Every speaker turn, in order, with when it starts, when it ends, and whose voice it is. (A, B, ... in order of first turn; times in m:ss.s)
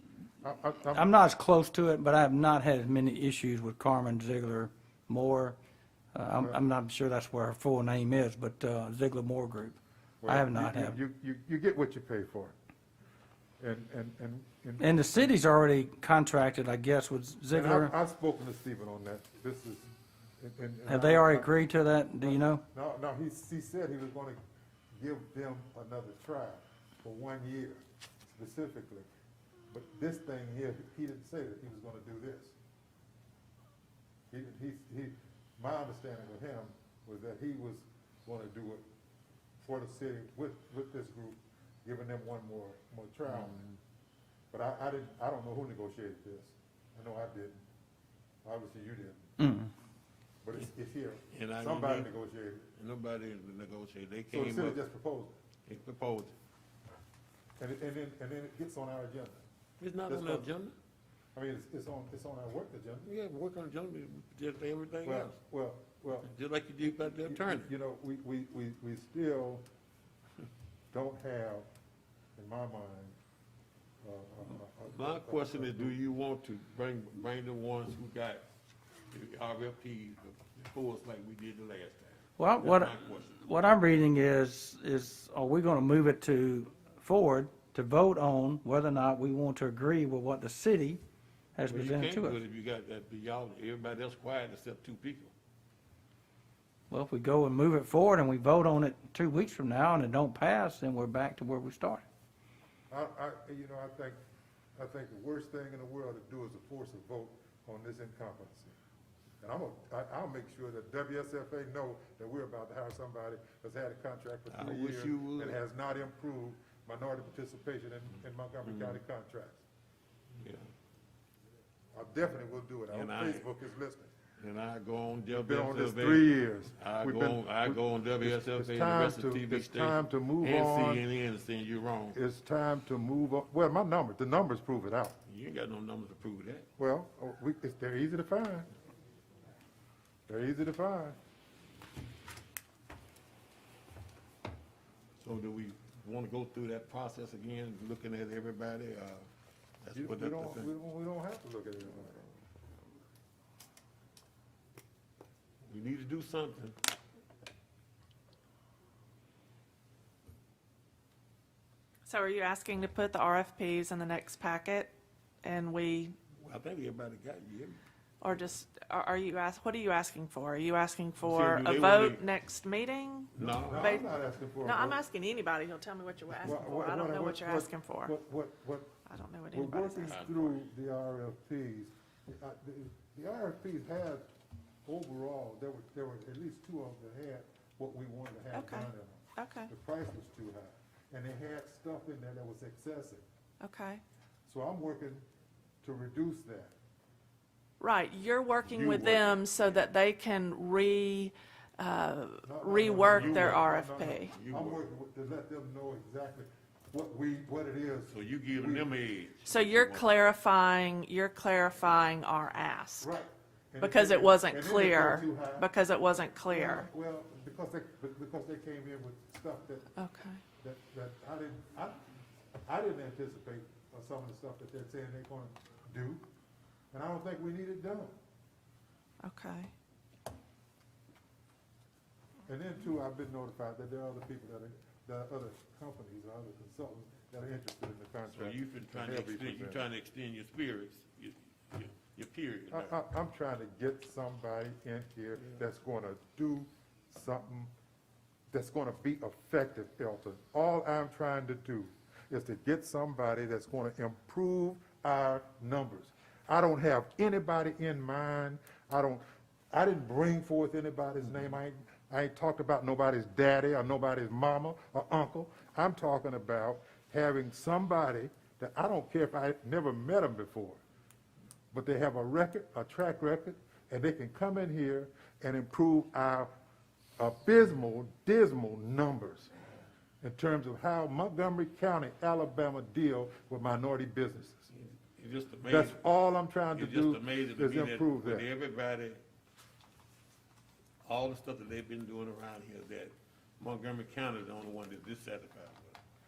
0:00.4-0:01.1 A
0:00.9-0:05.6 B
0:06.1-0:11.0 B
0:06.3-0:06.6 A
0:10.2-0:12.5 A
0:13.6-0:15.4 A
0:14.8-0:17.9 B
0:17.5-0:21.5 A
0:20.9-0:22.6 B
0:22.2-0:24.4 A
0:25.0-0:29.1 A
0:29.7-0:32.6 A
0:34.3-0:38.8 A
0:39.6-0:43.6 A
0:44.5-0:47.6 A
0:48.4-0:49.3 A
0:49.4-0:49.7 B
0:50.4-0:52.7 A
0:51.3-0:52.1 C
0:52.8-0:54.8 C
0:54.3-0:55.4 A
0:55.7-0:56.4 C
0:57.6-0:59.4 A
0:59.8-1:00.8 C
1:00.0-1:00.5 A
1:01.3-1:03.1 A
1:03.1-1:05.4 C
1:05.0-1:06.3 A
1:06.1-1:07.7 C
1:06.9-1:09.7 A
1:10.9-1:11.7 A
1:12.4-1:13.2 A
1:14.0-1:16.0 A
1:14.9-1:18.4 C
1:19.1-1:23.4 C
1:22.4-1:31.0 B
1:31.6-1:32.4 B
1:31.7-1:35.3 C
1:36.9-1:42.0 B
1:42.9-1:44.2 A
1:44.8-1:48.8 A
1:49.4-1:59.6 A
1:54.5-1:55.6 C
1:58.7-1:59.0 C
2:00.4-2:00.7 C
2:02.0-2:04.1 A
2:02.9-2:03.5 C
2:04.4-2:12.2 C
2:05.3-2:11.0 A
2:12.1-2:15.2 A
2:15.2-2:16.7 C
2:16.8-2:18.7 A
2:20.3-2:21.2 A
2:25.2-2:29.3 C
2:29.8-2:30.7 C
2:29.9-2:32.2 A
2:35.6-2:36.8 C
2:42.1-2:46.2 D
2:46.4-2:47.8 C
2:48.2-2:54.1 D
2:51.2-2:52.2 C
2:53.3-2:54.0 C
2:53.6-2:55.0 A
2:54.6-2:58.1 D
2:56.4-2:58.9 A
2:59.1-3:00.4 D
2:59.5-3:04.2 A
3:00.1-3:00.6 C
3:04.8-3:13.2 A
3:08.5-3:09.7 D
3:13.6-3:14.0 D
3:14.5-3:15.2 A
3:15.8-3:16.8 A
3:17.8-3:24.4 D
3:18.6-3:19.8 C
3:22.4-3:28.9 A
3:23.0-3:23.7 C
3:24.3-3:24.8 C
3:28.1-3:30.3 C
3:29.5-3:33.1 D
3:33.0-3:35.7 A
3:33.8-3:36.9 D
3:36.5-3:39.9 A
3:40.0-3:40.4 D
3:40.6-3:42.0 A
3:42.6-3:46.2 A
3:46.9-3:48.2 A
3:49.2-3:49.7 D
3:52.5-3:59.8 A
3:58.3-4:03.0 C
4:02.7-4:07.7 A
4:08.5-4:30.8 A
4:31.7-4:36.5 A
4:37.2-4:39.5 A
4:40.2-4:44.7 A
4:44.7-4:46.0 C
4:45.7-4:48.5 A
4:46.7-4:49.2 C
4:51.0-4:56.0 C